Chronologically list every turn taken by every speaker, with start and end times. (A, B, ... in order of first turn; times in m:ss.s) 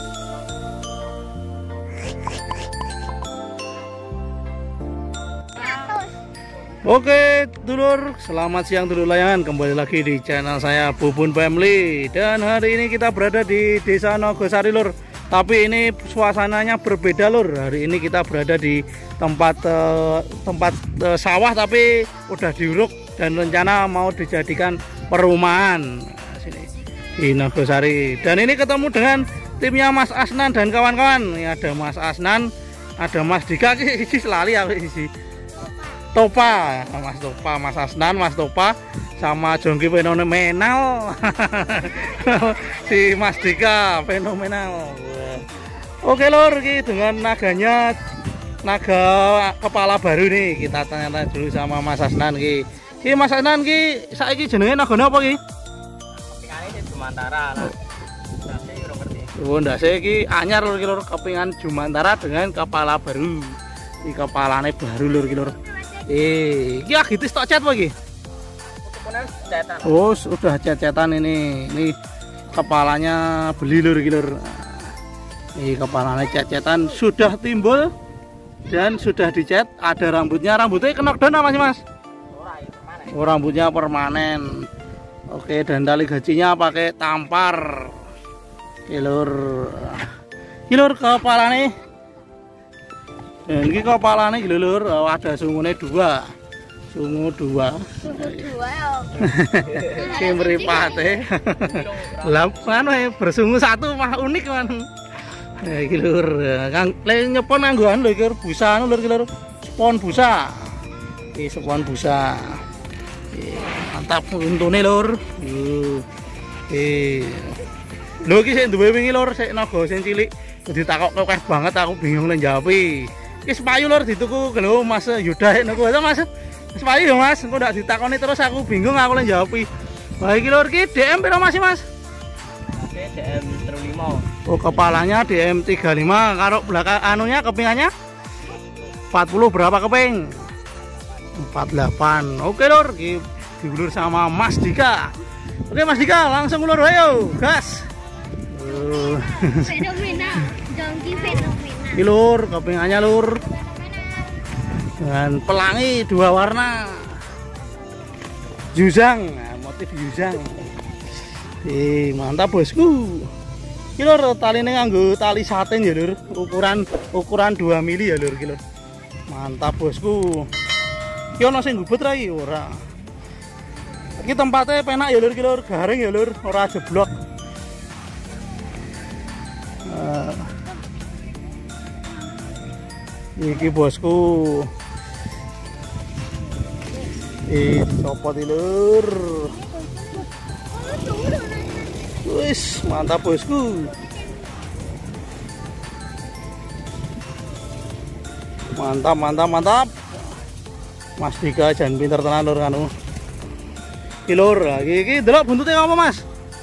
0:06.8-0:35.1 A
0:36.0-0:45.5 A
0:46.0-0:48.1 A
0:48.6-0:55.4 A
0:56.3-0:57.8 B
0:58.3-0:59.3 B
0:59.3-1:07.9 A
1:08.8-1:09.9 B
1:09.8-1:12.0 A
1:12.5-1:14.9 A
1:15.6-1:17.9 A
1:18.7-1:21.8 A
1:22.3-1:23.1 B
1:23.0-1:24.7 A
1:25.3-1:28.0 A
1:28.9-1:30.1 A
1:30.7-1:31.8 A
1:33.4-1:36.3 A
1:36.9-1:38.6 A
1:38.5-1:39.1 B
1:39.1-1:44.9 A
1:41.6-1:42.2 B
1:45.4-1:50.8 A
1:51.3-1:52.6 A
1:53.3-1:56.1 A
1:56.7-1:57.6 A
1:58.2-2:09.7 A
2:10.2-2:11.8 A
2:12.7-2:14.4 B
2:14.4-2:17.9 A
2:19.1-2:20.5 A
2:21.3-2:25.1 A
2:25.7-2:27.9 A
2:28.4-2:30.5 A
2:30.0-2:31.9 B
2:31.9-2:33.5 A
2:34.8-2:37.2 A
2:38.7-2:40.8 A
2:41.6-2:43.3 A
2:44.0-2:48.6 A
2:49.3-2:50.5 A
2:51.4-2:52.8 A
2:54.2-2:57.1 A
2:59.8-3:00.5 A
3:03.4-3:04.7 A
3:07.5-3:09.6 A
3:10.9-3:11.8 B
3:12.2-3:13.9 A
3:18.8-3:20.0 A
3:21.2-3:22.9 A
3:24.3-3:26.2 A